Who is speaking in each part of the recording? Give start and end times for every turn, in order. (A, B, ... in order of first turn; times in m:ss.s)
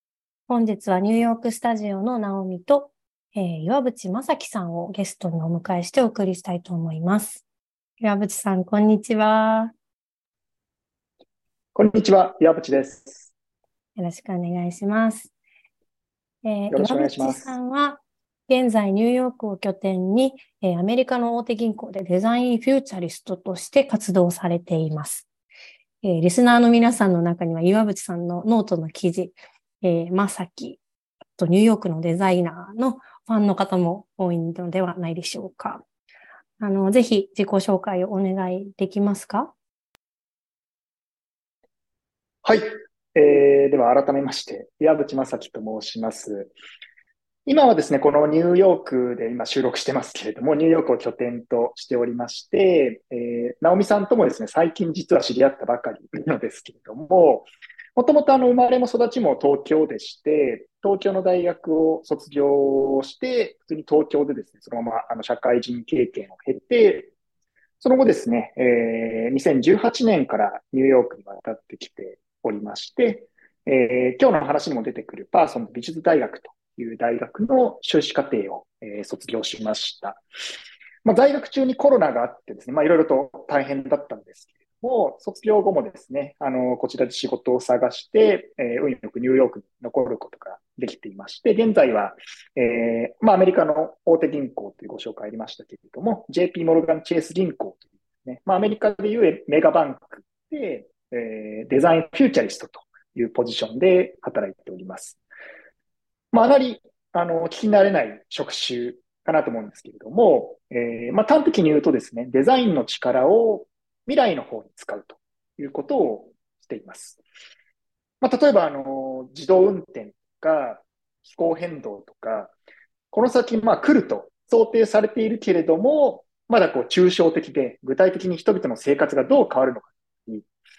0:00.5-0:07.4 A
0:08.0-0:09.7 A
0:11.7-0:13.3 B
0:14.0-0:15.3 A
0:16.4-0:25.3 A
0:16.7-0:17.5 B
0:26.0-0:30.8 A
0:31.4-0:35.8 A
0:36.6-0:39.5 A
0:42.4-0:46.5 B
0:47.4-1:07.1 B
1:07.8-1:20.2 B
1:21.0-1:45.2 B
1:46.3-1:57.2 B
1:58.2-2:02.5 B
2:03.1-2:10.5 B